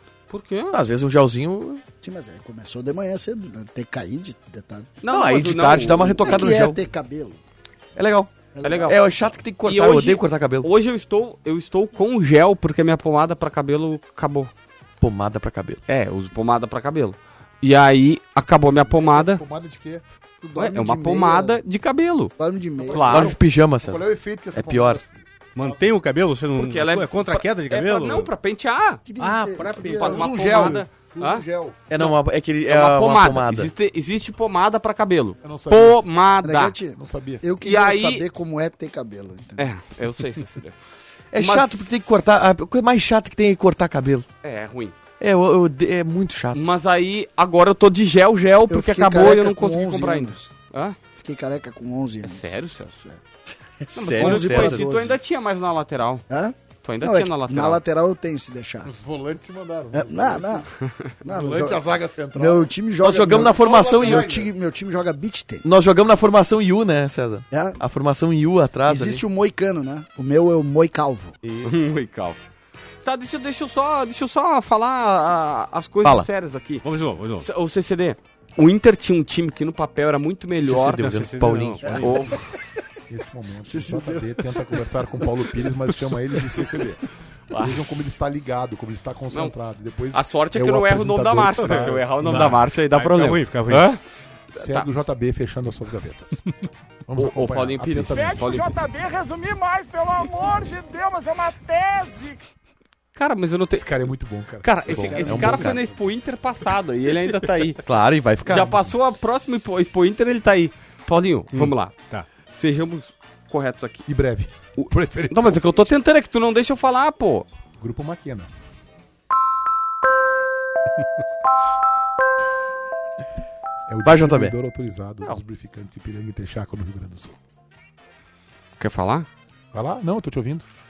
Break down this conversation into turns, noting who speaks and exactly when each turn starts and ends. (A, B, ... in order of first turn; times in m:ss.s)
0:00.3-0:00.8 A
0:00.7-0:01.8 B
0:02.0-0:04.9 C
0:05.0-0:06.5 A
0:05.1-0:06.8 B
0:06.2-0:07.4 C
0:08.0-0:08.3 B
0:08.5-0:09.3 C
0:08.6-0:09.0 A
0:08.8-0:10.7 B
0:09.6-0:14.5 A
0:15.0-0:15.8 B
0:15.9-0:19.4 A
0:18.8-0:20.0 D
0:20.4-0:21.6 C
0:20.6-0:22.3 A
0:22.4-0:23.3 C
0:22.9-0:25.9 D
0:22.9-0:23.4 A
0:23.0-0:25.0 B
0:25.6-0:28.3 E
0:26.6-0:29.0 A
0:29.1-0:30.2 C
0:29.2-0:30.8 E
0:29.9-0:31.4 A
0:30.1-0:31.8 D
0:31.9-0:33.7 B
0:32.7-0:36.8 A
0:35.4-0:36.0 D
0:36.4-0:39.7 C
0:37.0-0:37.4 D
0:37.6-0:38.2 A
0:39.6-0:40.8 A
0:41.3-0:44.3 B
0:41.4-0:41.8 A
0:44.4-0:45.0 A
0:45.2-0:46.6 B
0:46.5-0:51.0 A
0:48.7-0:50.5 C
0:51.2-0:52.4 C
0:52.2-0:53.0 A
0:53.8-0:54.8 B
0:54.0-0:56.2 A
0:54.1-0:55.2 C
0:56.3-0:58.9 C
0:56.8-0:57.8 A
0:58.8-1:00.7 D
0:59.9-1:00.7 C
1:01.2-1:05.9 C
1:01.2-1:04.5 D
1:03.0-1:04.3 B
1:05.6-1:09.2 B
1:07.5-1:07.8 C
1:08.8-1:11.4 C
1:11.6-1:12.4 A
1:13.0-1:16.8 A
1:16.8-1:17.5 E
1:17.4-1:21.2 A
1:20.7-1:22.4 B
1:20.9-1:22.1 E
1:21.9-1:22.2 C
1:22.0-1:22.5 A
1:23.1-1:32.5 D
1:23.6-1:24.8 C
1:27.5-1:27.8 A
1:30.1-1:34.0 A
1:31.7-1:33.9 E
1:34.5-1:34.9 A
1:34.6-1:36.4 D
1:37.1-1:39.0 D
1:37.2-1:38.8 A
1:39.0-1:42.3 F
1:43.2-1:44.1 A
1:43.8-1:45.9 D
1:44.6-1:47.8 A
1:44.9-1:45.8 B
1:47.8-1:48.9 B
1:48.5-1:52.0 A
1:51.5-1:52.3 E
1:52.5-1:54.0 A
1:54.1-1:55.7 D
1:54.8-1:57.5 A
1:57.8-1:58.5 D
2:03.9-2:07.4 D
2:04.0-2:04.6 B
2:08.8-2:09.3 A
2:09.7-2:10.6 D